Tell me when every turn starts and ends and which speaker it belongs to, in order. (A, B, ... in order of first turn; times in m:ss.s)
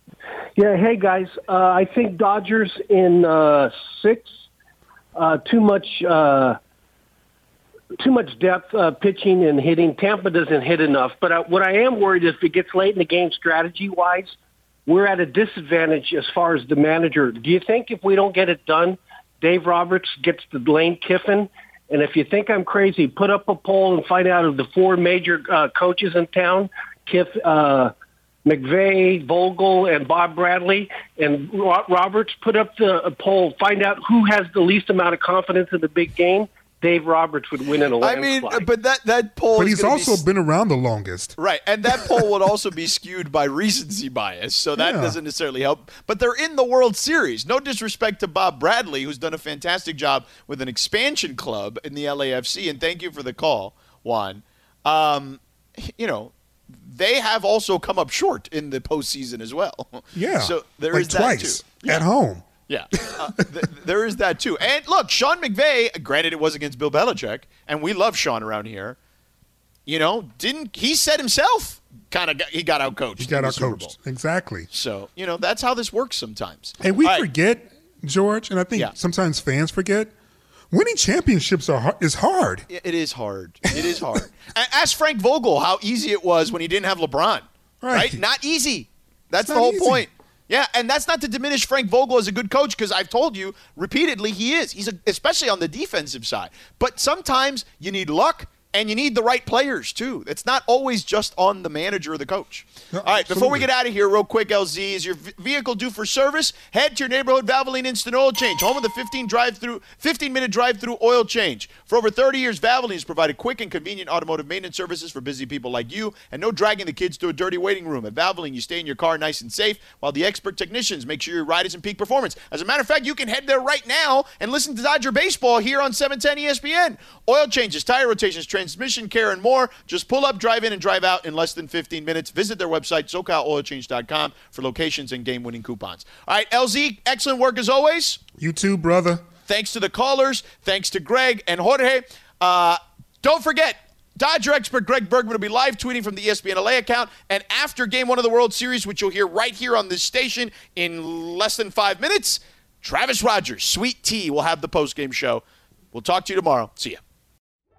0:00.6-0:04.3 A
0:05.1-0:06.6 A
0:08.0-0:14.3 A
0:14.9-0:27.9 A
0:28.4-0:38.7 A
0:38.0-0:40.2 B
0:39.6-0:41.4 C
0:41.4-1:02.0 B
0:44.8-0:45.2 C
1:00.1-1:02.5 C
1:02.7-1:09.0 B
1:03.0-1:03.3 C
1:09.8-1:13.9 B
1:13.2-1:14.7 C
1:14.7-1:17.3 B
1:16.8-1:20.1 C
1:20.7-1:22.7 C
1:22.7-2:18.2 B
1:27.8-1:28.2 C
1:29.4-1:30.0 C
1:42.9-1:43.7 C
2:18.4-2:19.2 C
2:19.5-2:37.0 B